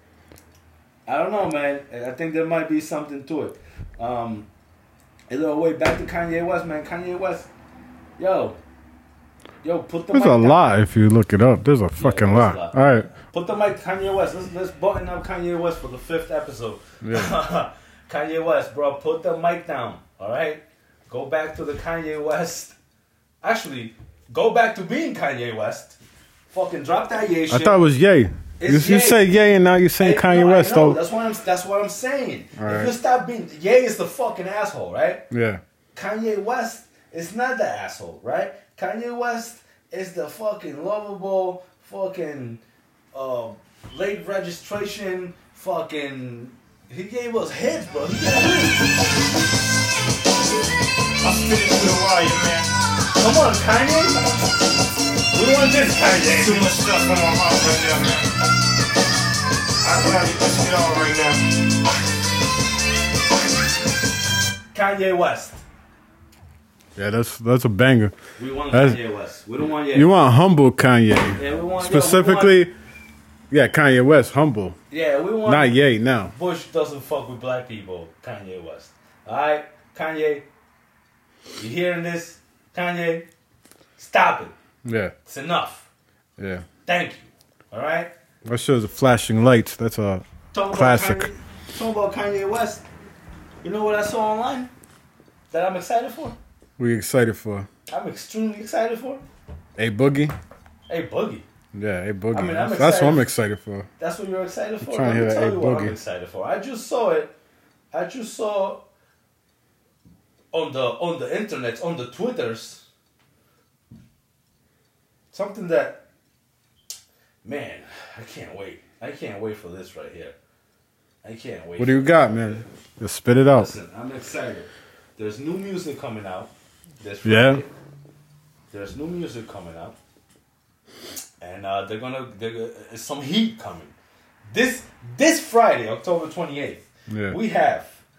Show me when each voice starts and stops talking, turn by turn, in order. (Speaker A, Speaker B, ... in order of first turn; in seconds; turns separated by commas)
Speaker A: 1.1-4.5, Speaker A: 5.3-7.5, Speaker A: 8.2-8.6, Speaker A: 9.6-10.8, Speaker B: 10.1-13.1, Speaker A: 12.0-22.7, Speaker B: 17.0-17.4, Speaker A: 23.4-26.0, Speaker A: 26.5-27.8, Speaker B: 27.5-31.0, Speaker A: 28.6-29.3, Speaker A: 30.0-35.2, Speaker B: 32.6-32.9, Speaker B: 35.3-35.6, Speaker A: 35.9-42.6, Speaker A: 43.1-48.9, Speaker C: 51.5-52.4, Speaker A: 53.1-54.2, Speaker A: 55.3-56.7, Speaker C: 56.4-58.0, Speaker C: 59.9-61.4, Speaker A: 64.7-65.6, Speaker B: 67.0-68.1, Speaker A: 68.4-70.1, Speaker B: 68.7-69.0, Speaker B: 69.9-72.7, Speaker A: 71.3-72.6, Speaker B: 73.5-74.8, Speaker A: 74.9-75.8, Speaker B: 75.5-76.3, Speaker A: 76.3-80.5, Speaker A: 81.5-83.3, Speaker A: 84.0-84.5, Speaker B: 84.8-85.1, Speaker A: 85.2-85.9, Speaker B: 86.4-86.6, Speaker A: 86.8-88.1, Speaker B: 88.4-91.3, Speaker A: 90.5-92.8, Speaker A: 93.6-94.7, Speaker A: 95.5-96.4, Speaker B: 96.8-97.7, Speaker A: 97.9-99.2, Speaker B: 99.8-100.3, Speaker A: 100.9-101.5, Speaker B: 101.7-103.9, Speaker A: 102.3-103.3, Speaker A: 104.0-107.3, Speaker B: 104.8-106.0, Speaker A: 107.9-108.8, Speaker A: 110.5-112.8, Speaker A: 115.3-116.0, Speaker A: 117.4-120.3, Speaker A: 121.2-122.7, Speaker B: 121.8-123.7, Speaker A: 123.5-127.7, Speaker B: 127.2-127.6, Speaker A: 128.7-130.0, Speaker A: 131.4-133.9, Speaker A: 134.5-138.0, Speaker B: 137.1-137.4